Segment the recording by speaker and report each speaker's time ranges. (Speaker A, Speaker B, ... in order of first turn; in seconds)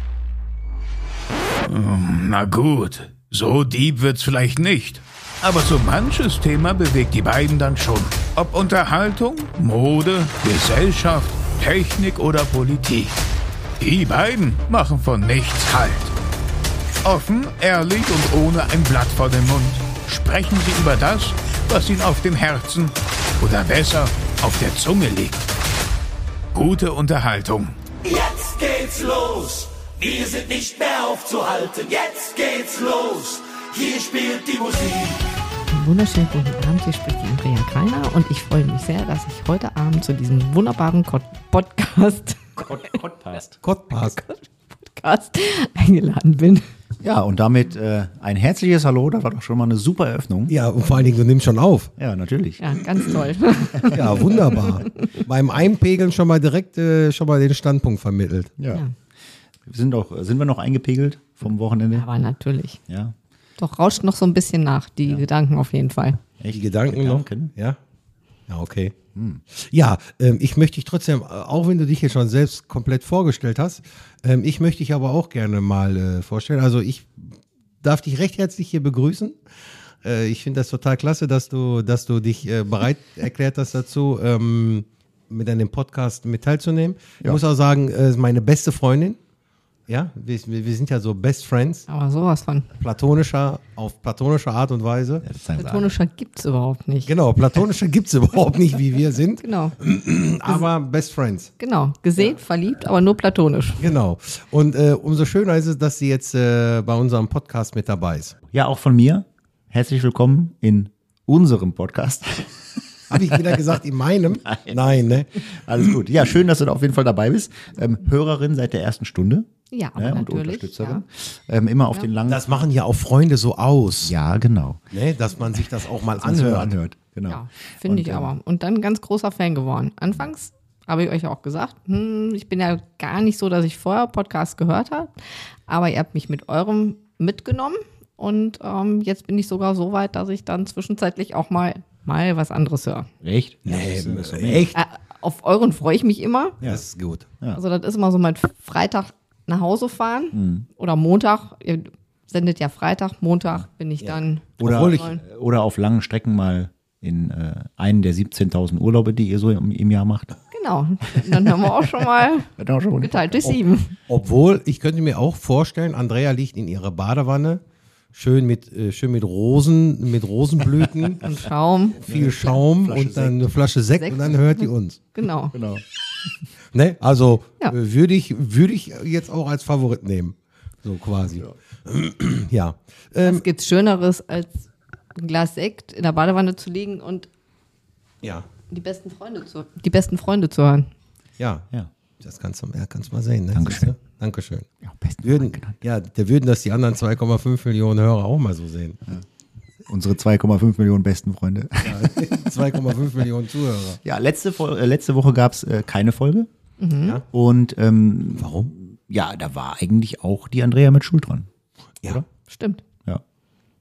Speaker A: 1.6-13.2, 13.8-16.1, 17.0-25.5, 26.5-33.3
Speaker B: 30.0-32.6, 33.3-35.2
Speaker C: 35.7-43.0, 44.0-46.7, 52.6-55.1, 61.9-62.8, 63.6-66.2, 91.9-92.7, 95.6-97.1, 99.4-99.8, 101.6-103.9, 119.7-121.0, 127.3-135.1, 135.7-143.1, 144.7-146.6, 147.5-155.2, 160.5-162.5, 163.0-163.9, 171.2-172.0, 174.0-174.3, 175.1-175.5, 183.2-187.3, 188.7-190.9, 206.8-207.2, 212.5-212.8
Speaker D: 42.6-43.6, 47.0-50.5, 52.0-52.6, 58.6-58.8, 59.6-62.1, 62.9-63.1, 66.4-67.5, 69.1-69.4, 95.2-95.9, 108.5-113.4, 114.5-114.8, 115.3-122.5, 124.0-124.8, 126.2-128.3, 143.2-144.7, 150.3-150.7, 154.6-160.3, 162.6-163.6, 172.1-173.4, 175.5-175.8, 193.5-193.9, 194.8-195.8, 199.9-202.5, 204.0-206.5, 207.3-211.5
Speaker E: 43.6-44.2, 50.5-51.9, 53.9-58.5, 66.5-67.8, 68.5-69.0, 69.5-79.4, 80.0-89.2, 89.9-91.8, 92.8-95.2, 97.0-101.5, 103.8-108.3, 113.1-115.9, 122.2-124.1, 124.9-126.7, 143.6-144.8, 146.6-147.3, 154.0-155.1, 164.1-167.6, 168.1-171.3, 171.9-175.0, 176.7-183.4, 188.2-188.5, 191.4-191.7, 192.2-194.7, 195.2-199.0, 201.8-204.0, 208.3-208.7